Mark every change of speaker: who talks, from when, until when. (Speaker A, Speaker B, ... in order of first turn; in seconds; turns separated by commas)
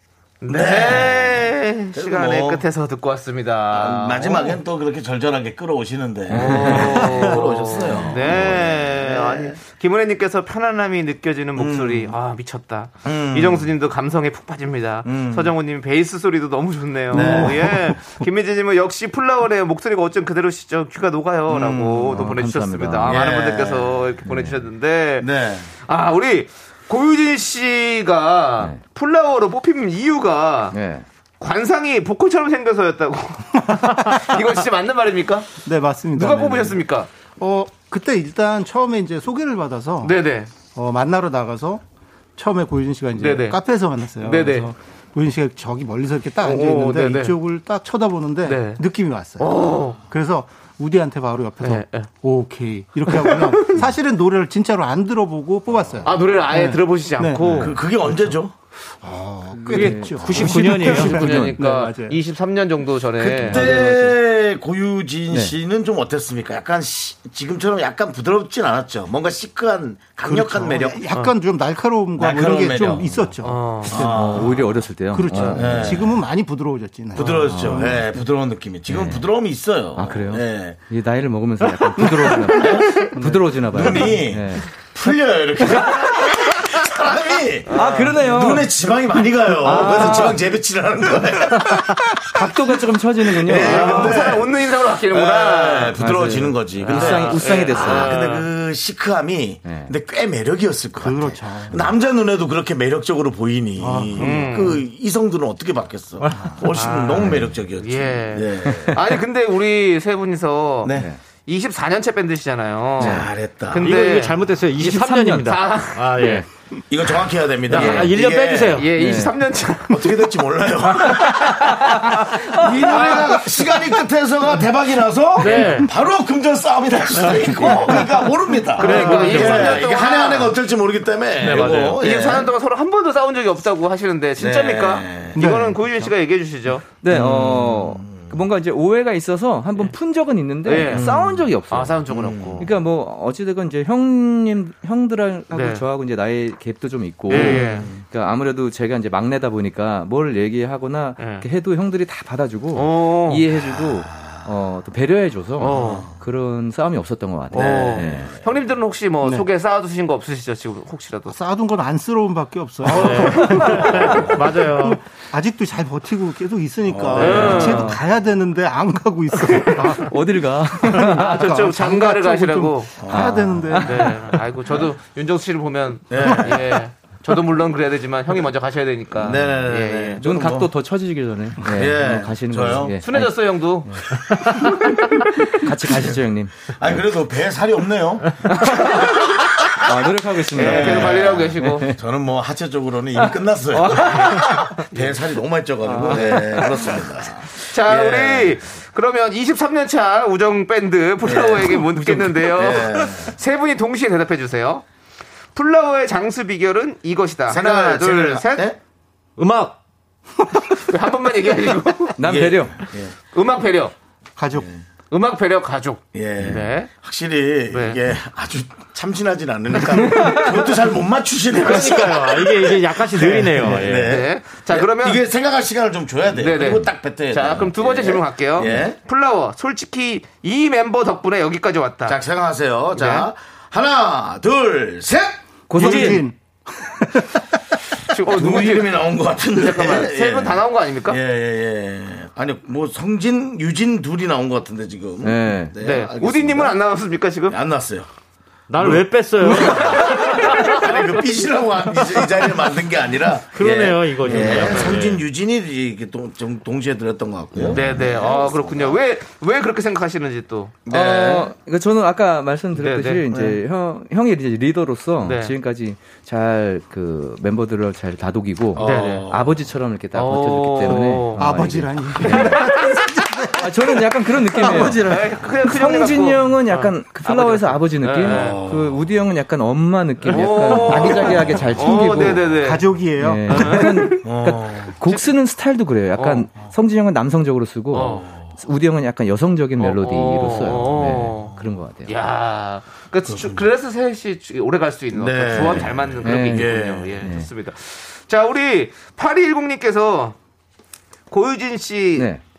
Speaker A: 0.4-4.6, Speaker B: 0.5-2.6, Speaker B: 3.7-9.6, Speaker A: 6.3-25.3, Speaker C: 6.4-6.8, Speaker B: 11.6-12.1, Speaker B: 13.0-13.7, Speaker B: 15.0-15.5, Speaker B: 17.1-17.8, Speaker D: 17.1-18.0, Speaker B: 21.5-22.0, Speaker C: 22.0-23.2, Speaker B: 23.1-24.0, Speaker C: 24.2-24.6, Speaker B: 25.2-25.7, Speaker A: 25.9-30.8, Speaker C: 30.7-31.0, Speaker A: 31.4-35.5, Speaker D: 33.7-34.2, Speaker D: 35.6-36.8, Speaker A: 36.1-37.1, Speaker D: 37.4-40.1, Speaker A: 40.0-40.5, Speaker D: 40.7-41.8, Speaker D: 42.4-57.7, Speaker A: 43.2-43.6, Speaker A: 44.2-44.7, Speaker A: 46.4-47.4, Speaker A: 48.4-48.8, Speaker A: 49.4-50.0, Speaker A: 51.6-52.1, Speaker A: 53.1-53.8, Speaker A: 56.0-57.8, Speaker B: 57.5-58.5, Speaker D: 59.0-62.2, Speaker C: 59.6-61.6, Speaker E: 59.7-61.3, Speaker A: 60.8-63.9, Speaker C: 63.2-64.1, Speaker B: 63.2-71.0, Speaker D: 70.2-78.1, Speaker B: 72.2-73.3, Speaker A: 73.4-73.9, Speaker B: 73.9-74.8, Speaker C: 73.9-76.0, Speaker B: 75.4-76.1, Speaker B: 77.1-80.8, Speaker C: 77.3-78.0, Speaker C: 78.9-79.2, Speaker C: 80.0-84.7, Speaker D: 82.0-82.6, Speaker B: 82.5-92.4, Speaker D: 83.1-83.5, Speaker A: 87.7-88.2, Speaker C: 87.7-88.7, Speaker C: 89.6-90.4, Speaker C: 92.2-94.3, Speaker B: 93.3-109.0, Speaker A: 93.5-96.0, Speaker C: 96.0-98.2, Speaker A: 96.8-98.5, Speaker C: 99.6-99.9, Speaker D: 101.0-101.9, Speaker D: 103.8-104.7, Speaker A: 104.2-104.8, Speaker A: 106.7-110.9, Speaker B: 110.8-111.1, Speaker A: 111.4-114.3, Speaker B: 113.0-113.9, Speaker C: 113.0-113.3, Speaker E: 113.8-116.5, Speaker C: 114.8-115.6, Speaker A: 115.4-116.1, Speaker B: 116.9-118.8, Speaker E: 117.7-118.9, Speaker C: 117.7-118.2, Speaker A: 118.7-120.2, Speaker C: 118.9-119.3, Speaker B: 119.9-132.5, Speaker A: 121.2-123.4, Speaker C: 121.8-122.1, Speaker E: 125.4-125.9, Speaker E: 127.2-127.5, Speaker A: 128.8-130.5, Speaker E: 128.8-129.8, Speaker E: 131.4-132.0, Speaker A: 131.6-136.8, Speaker B: 134.4-135.4, Speaker D: 135.3-136.1, Speaker C: 137.0-142.0, Speaker B: 137.1-138.3, Speaker A: 140.6-141.1, Speaker B: 140.9-141.5, Speaker A: 141.7-142.7, Speaker B: 142.1-142.7, Speaker C: 142.6-158.3, Speaker A: 145.5-145.8, Speaker A: 147.3-147.9, Speaker B: 147.3-148.0, Speaker A: 151.2-151.4, Speaker A: 152.7-153.4, Speaker B: 153.6-154.4, Speaker A: 155.6-156.1, Speaker B: 155.7-156.1, Speaker B: 157.5-158.3, Speaker A: 157.5-161.3, Speaker D: 161.3-170.1, Speaker A: 162.9-163.9, Speaker E: 162.9-165.0, Speaker B: 166.9-167.8, Speaker A: 167.2-167.9, Speaker C: 167.2-168.0, Speaker A: 169.4-170.1, Speaker C: 169.6-171.4, Speaker D: 170.8-174.1, Speaker A: 170.9-172.9, Speaker B: 173.0-173.5, Speaker C: 173.0-174.4, Speaker A: 173.8-180.2, Speaker B: 176.1-176.7, Speaker B: 179.2-180.7, Speaker C: 180.2-184.0, Speaker B: 181.7-183.0, Speaker A: 183.0-185.3, Speaker C: 185.5-186.7, Speaker B: 185.8-186.2, Speaker B: 186.7-189.4, Speaker C: 188.4-189.1, Speaker C: 189.8-192.0, Speaker A: 190.5-191.9, Speaker B: 190.5-198.6, Speaker A: 193.7-194.9, Speaker C: 195.8-197.0, Speaker A: 196.1-196.4, Speaker A: 197.6-204.8, Speaker B: 201.2-203.3, Speaker C: 202.0-202.3, Speaker A: 205.5-208.7, Speaker B: 207.5-208.8, Speaker A: 209.4-209.7, Speaker A: 210.8-212.2, Speaker C: 212.2-212.8, Speaker B: 212.2-213.1, Speaker A: 213.3-213.9, Speaker D: 214.4-214.7, Speaker B: 214.6-214.8, Speaker A: 215.1-216.9, Speaker B: 216.1-229.0, Speaker A: 217.7-218.0, Speaker C: 220.1-220.4, Speaker E: 221.5-224.2, Speaker A: 223.9-225.2, Speaker A: 226.3-232.2, Speaker B: 232.1-236.2, Speaker A: 232.9-233.3, Speaker C: 235.7-236.3, Speaker D: 235.7-237.4, Speaker A: 235.8-236.1, Speaker A: 238.1-239.0, Speaker B: 238.3-246.8, Speaker A: 239.5-241.2, Speaker C: 245.2-245.7, Speaker A: 245.8-247.6, Speaker B: 247.5-248.1, Speaker E: 248.7-250.7, Speaker B: 248.8-259.0, Speaker A: 249.7-250.9, Speaker E: 253.5-255.2, Speaker C: 254.3-254.6, Speaker A: 257.7-260.8, Speaker B: 260.9-261.5, Speaker C: 260.9-272.8, Speaker A: 262.7-263.2, Speaker A: 265.2-265.5, Speaker B: 268.7-269.6, Speaker A: 268.8-269.3, Speaker A: 270.1-271.4, Speaker D: 271.3-275.1, Speaker A: 272.2-273.0, Speaker C: 273.6-282.6, Speaker A: 274.6-278.6, Speaker B: 278.2-279.1, Speaker A: 280.2-282.9, Speaker B: 280.8-281.7, Speaker D: 282.6-284.1, Speaker C: 283.1-292.1, Speaker A: 283.5-284.2, Speaker B: 284.2-284.9, Speaker A: 286.1-286.5, Speaker A: 287.9-288.2, Speaker B: 288.2-288.5, Speaker A: 289.8-291.5, Speaker A: 292.1-300.4, Speaker B: 293.2-293.6, Speaker B: 295.1-297.1, Speaker C: 296.2-297.5, Speaker A: 301.3-302.3, Speaker C: 302.1-302.4